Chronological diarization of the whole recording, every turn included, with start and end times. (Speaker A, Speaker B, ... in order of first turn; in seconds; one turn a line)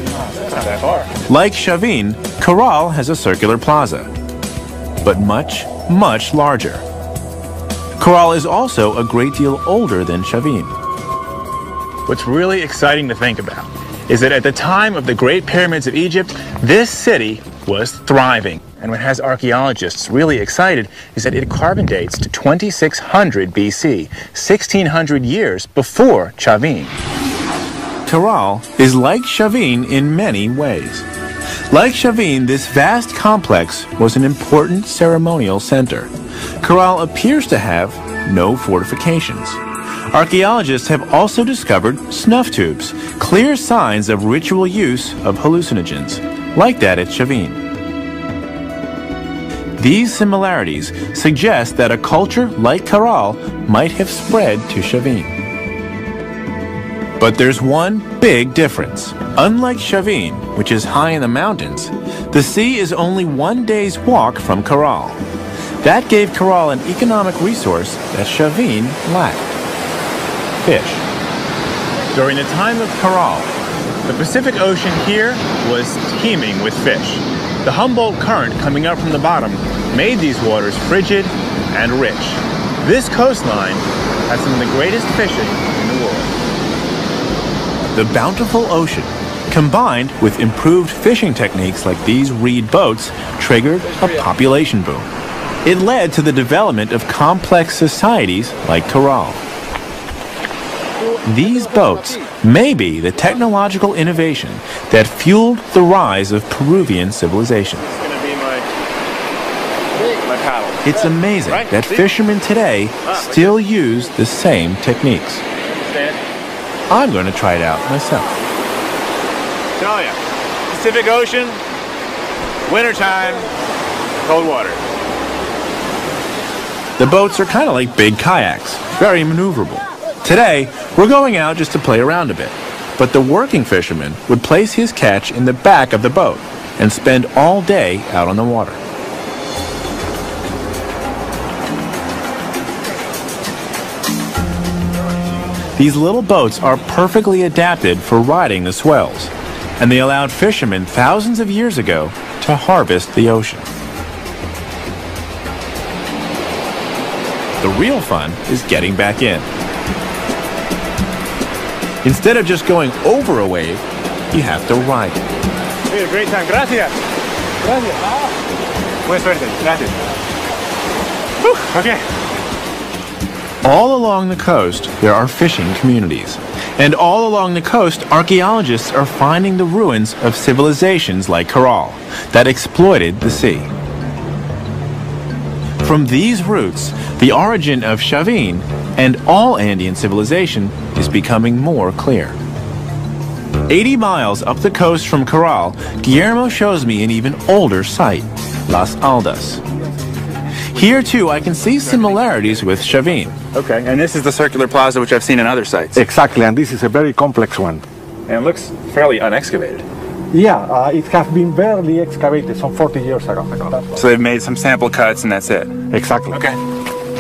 Speaker A: 0.3-1.1
Speaker B: 1.3-4.1
Speaker B: 5.0-6.8
Speaker B: 8.0-10.8
Speaker A: 12.1-27.0
Speaker B: 28.1-31.1
Speaker B: 31.7-39.6
Speaker B: 40.1-47.6
Speaker B: 49.8-55.4
Speaker B: 57.2-65.2
Speaker B: 65.8-69.6
Speaker B: 70.6-71.0
Speaker A: 72.1-73.4
Speaker A: 74.0-86.3
Speaker B: 87.9-95.1
Speaker B: 95.6-99.4
Speaker B: 101.2-107.9
Speaker A: 107.9-108.7
Speaker A: 110.0-111.0
Speaker B: 110.8-115.4
Speaker A: 111.5-112.1
Speaker A: 113.1-113.5
Speaker A: 115.8-116.2
Speaker B: 116.9-118.4
Speaker A: 119.8-120.2
Speaker A: 120.7-121.6
Speaker A: 122.7-123.5
Speaker A: 124.2-124.8
Speaker B: 127.0-138.8
Speaker B: 145.8-153.7
Speaker B: 157.6-159.5
Speaker B: 162.0-165.2
Speaker A: 165.9-166.9
Speaker A: 167.7-168.1
Speaker A: 169.1-170.0
Speaker A: 171.4-172.0
Speaker B: 173.6-183.7
Speaker B: 185.8-192.4
Speaker B: 193.7-199.6
Speaker B: 200.7-203.3
Speaker A: 201.7-206.0
Speaker C: 206.0-207.8
Speaker A: 208.3-209.8
Speaker C: 210.3-214.0
Speaker A: 213.9-216.6
Speaker C: 215.9-216.4